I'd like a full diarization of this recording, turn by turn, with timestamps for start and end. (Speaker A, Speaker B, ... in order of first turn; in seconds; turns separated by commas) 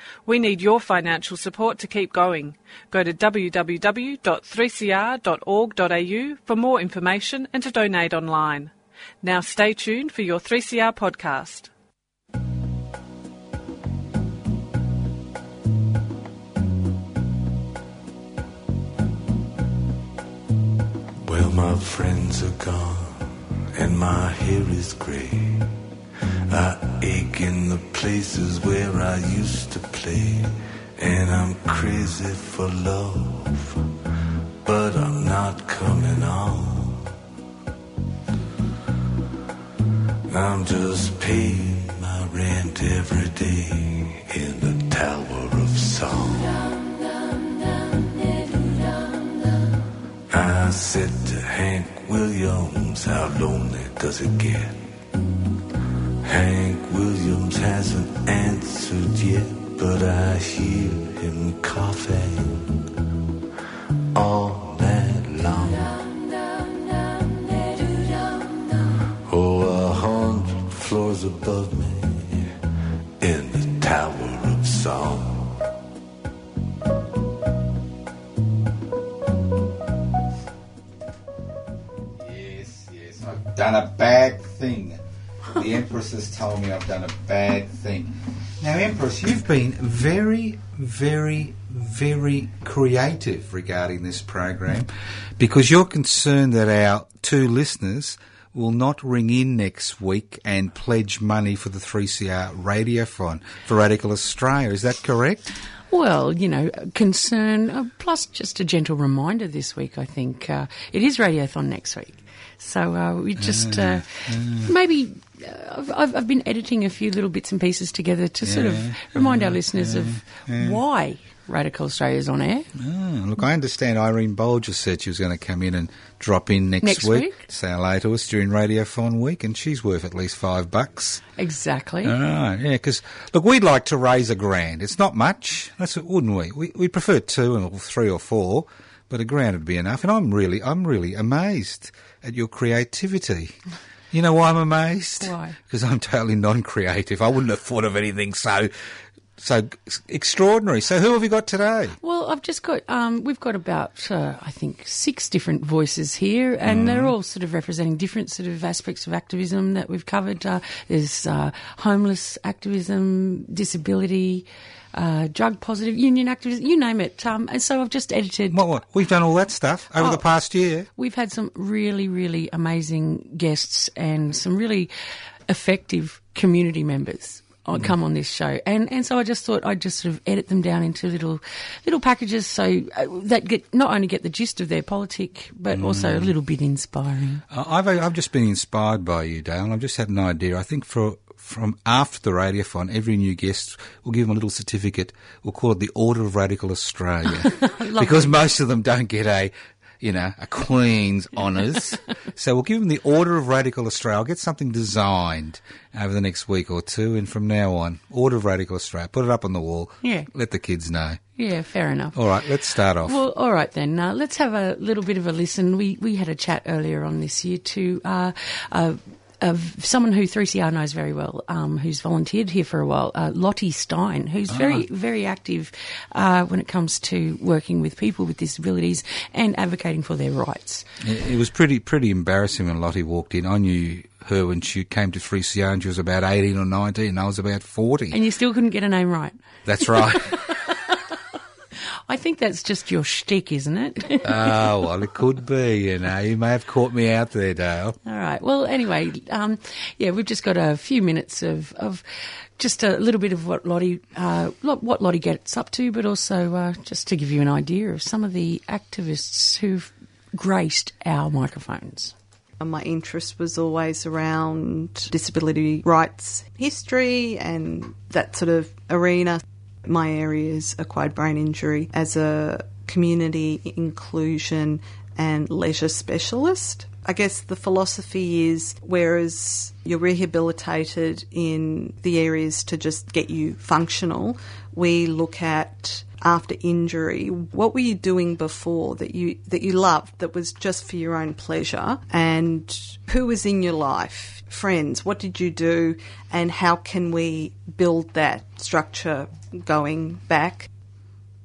Speaker A: 0.3-11.7, Speaker B: 21.2-25.7, Speaker B: 26.5-33.9, Speaker B: 34.6-37.1, Speaker B: 40.3-46.7, Speaker B: 50.3-54.9, Speaker B: 56.2-62.7, Speaker B: 64.1-66.0, Speaker B: 69.2-72.5, Speaker B: 73.2-75.6, Speaker C: 82.2-85.0, Speaker C: 85.5-105.5, Speaker D: 105.9-122.7, Speaker C: 113.4-114.7, Speaker C: 118.4-120.8, Speaker C: 122.8-131.2, Speaker D: 126.8-127.4, Speaker D: 131.4-132.2, Speaker C: 132.0-143.6, Speaker C: 144.1-148.7, Speaker D: 145.2-145.6, Speaker C: 149.4-152.0, Speaker D: 152.0-168.6, Speaker C: 156.6-157.2, Speaker C: 168.5-170.9, Speaker D: 170.0-170.2, Speaker D: 171.0-174.9, Speaker D: 175.5-187.4, Speaker C: 185.7-186.3, Speaker C: 187.5-211.2, Speaker D: 197.6-198.4, Speaker D: 210.0-210.3, Speaker D: 211.4-212.5, Speaker C: 212.1-213.2, Speaker D: 213.0-230.8, Speaker C: 224.5-224.8, Speaker C: 231.0-238.2, Speaker D: 238.1-241.2, Speaker C: 239.7-240.4, Speaker D: 242.1-244.5, Speaker C: 244.2-248.0, Speaker D: 248.1-252.0, Speaker D: 252.6-262.1, Speaker E: 262.6-300.7